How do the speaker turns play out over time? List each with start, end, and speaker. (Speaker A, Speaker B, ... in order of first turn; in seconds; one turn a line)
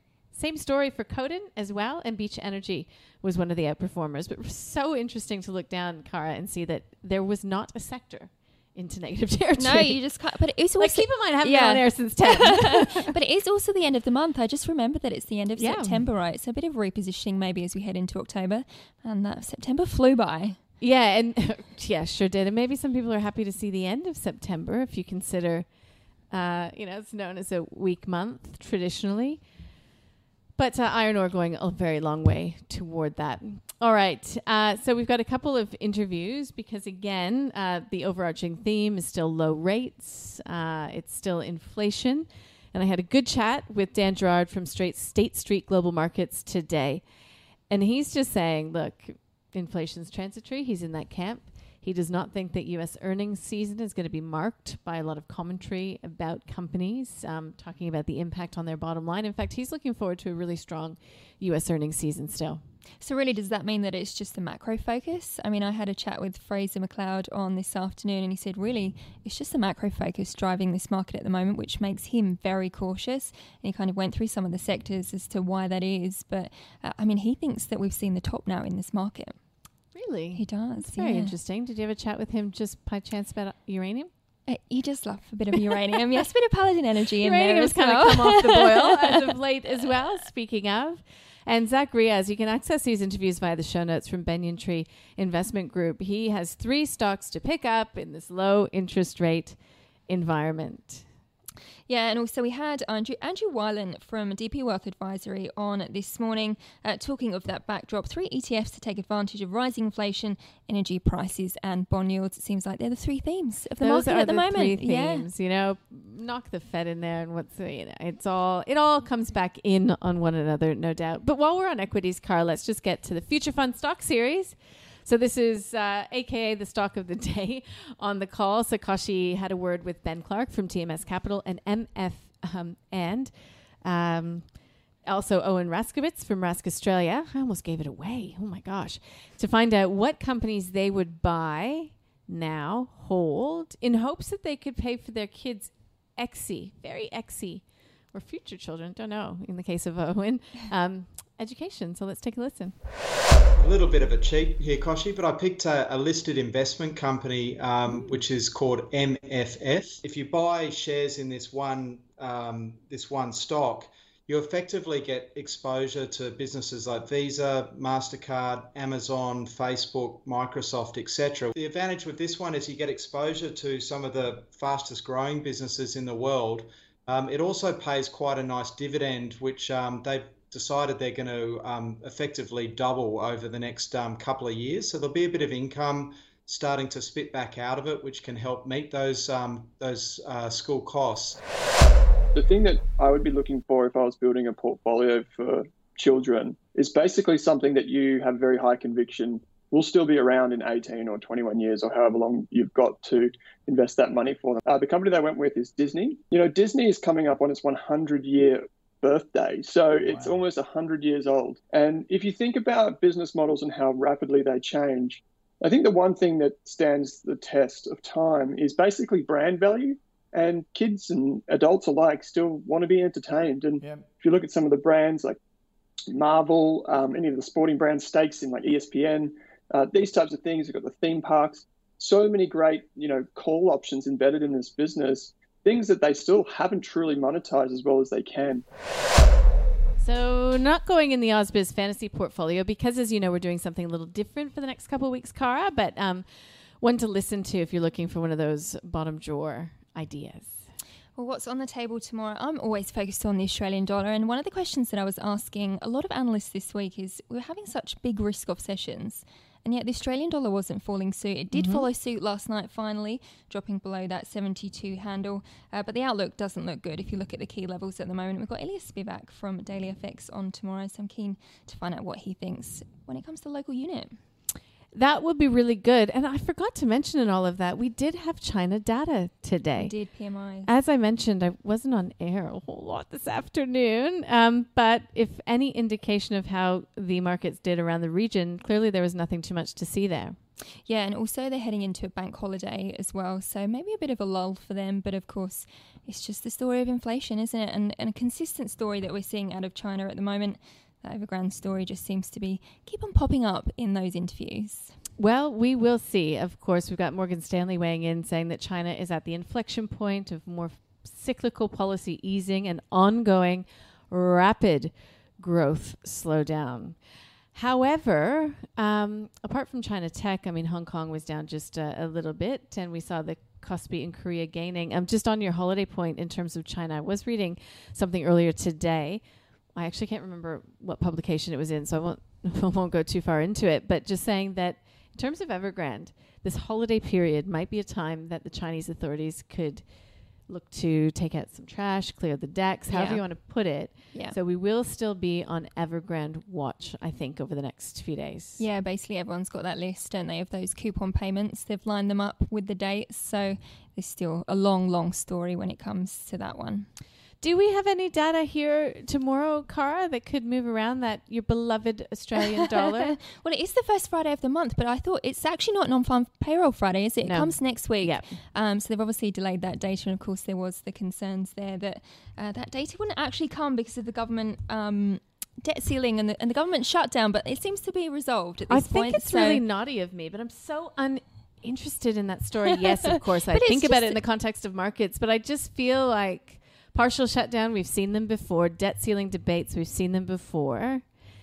Speaker A: 0.3-10.0
Speaker B: 9.6-20.6
Speaker A: 10.8-13.1
Speaker A: 15.6-16.1
Speaker A: 20.8-25.7
Speaker A: 26.3-29.4
Speaker A: 30.6-47.0
Speaker A: 47.7-62.6
Speaker B: 63.0-79.4
Speaker A: 79.9-84.1
Speaker B: 80.3-81.3
Speaker B: 84.5-89.3
Speaker A: 87.2-99.6
Speaker A: 100.1-101.0
Speaker B: 101.9-115.3
Speaker A: 113.8-133.3
Speaker A: 133.8-134.5
Speaker A: 135.1-152.7
Speaker C: 153.6-191.4
Speaker D: 192.3-225.4
Speaker D: 226.1-238.6
Speaker A: 240.0-246.2
Speaker A: 246.8-250.7
Speaker B: 251.2-274.2
Speaker A: 261.5-261.9
Speaker A: 274.9-279.9
Speaker B: 279.8-280.7
Speaker A: 280.6-290.4
Speaker B: 290.8-304.9
Speaker A: 305.2-317.0
Speaker A: 317.5-329.2
Speaker A: 329.7-339.8
Speaker A: 340.5-348.6
Speaker B: 342.9-343.2
Speaker B: 348.6-356.9
Speaker A: 357.4-363.2
Speaker B: 363.0-379.6
Speaker A: 367.2-368.2
Speaker A: 378.7-391.0
Speaker B: 383.5-384.2